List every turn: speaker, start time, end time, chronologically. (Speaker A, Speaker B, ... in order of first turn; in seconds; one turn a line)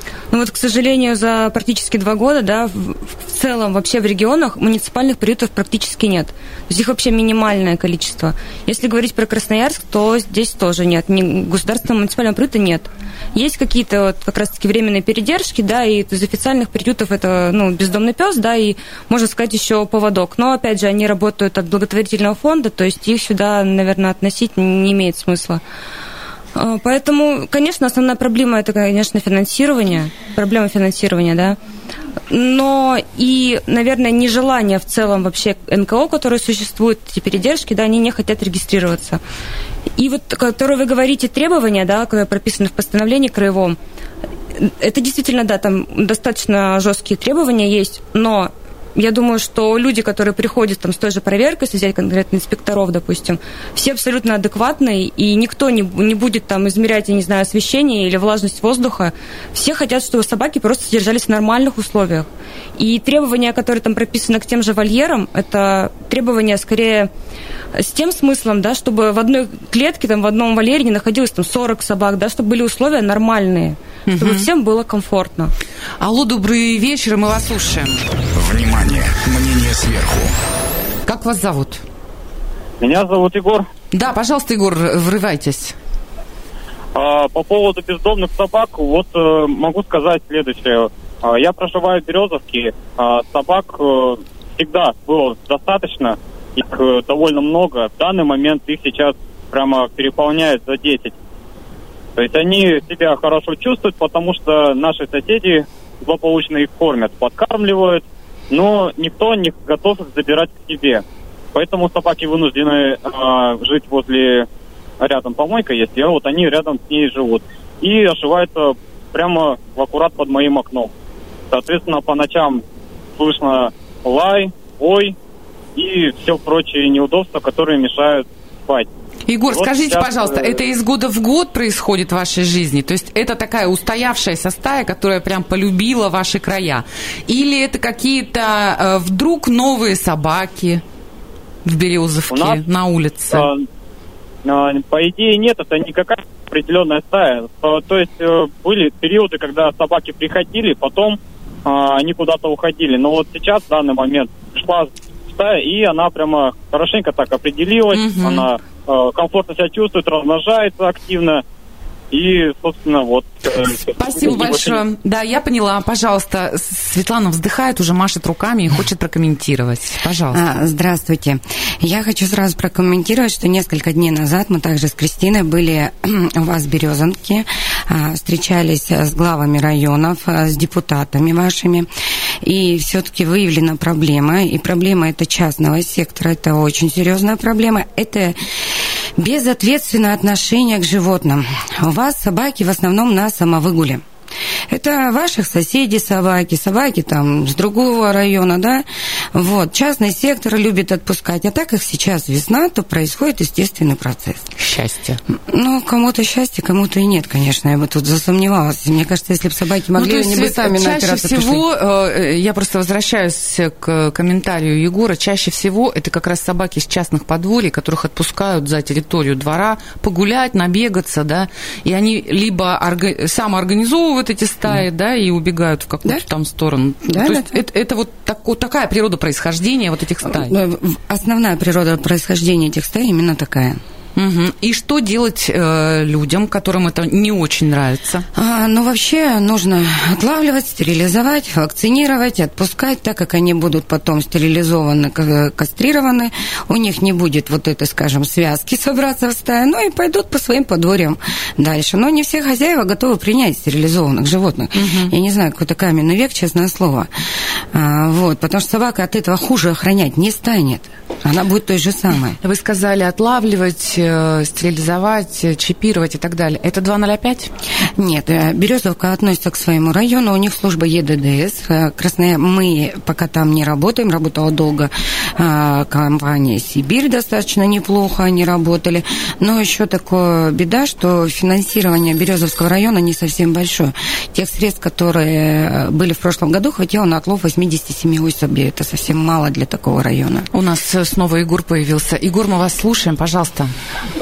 Speaker A: 0.3-25.6
Speaker A: 26.6-31.6
Speaker A: 32.3-39.2
Speaker A: 40.0-43.8
Speaker A: 44.6-67.1
Speaker A: 67.8-75.5
Speaker B: 74.1-74.5
Speaker B: 76.0-78.1
Speaker C: 78.3-80.3
Speaker B: 81.1-81.8
Speaker D: 82.8-83.7
Speaker B: 83.9-85.8
Speaker D: 87.0-101.2
Speaker D: 102.2-111.0
Speaker D: 111.5-114.5
Speaker D: 115.0-120.9
Speaker D: 121.5-122.6
Speaker D: 123.2-125.2
Speaker D: 125.8-128.9
Speaker B: 129.3-140.8
Speaker D: 129.5-130.6
Speaker B: 141.7-143.5
Speaker D: 142.3-142.6
Speaker D: 143.3-143.7
Speaker D: 144.4-161.4
Speaker B: 157.9-158.5
Speaker D: 162.1-164.8
Speaker B: 164.0-170.4
Speaker E: 170.3-181.9
Speaker E: 182.4-188.4
Speaker E: 189.2-194.0
Speaker E: 194.7-204.5
Speaker B: 204.6-205.2
Speaker E: 205.5-211.6
Speaker B: 209.9-230.5
Speaker E: 227.1-227.6
Speaker E: 230.3-233.8
Speaker B: 234.2-238.3
Speaker E: 238.3-257.1
Speaker B: 254.8-255.1
Speaker E: 257.7-262.4
Speaker B: 262.4-267.5
Speaker E: 268.0-290.5
Speaker B: 290.5-293.7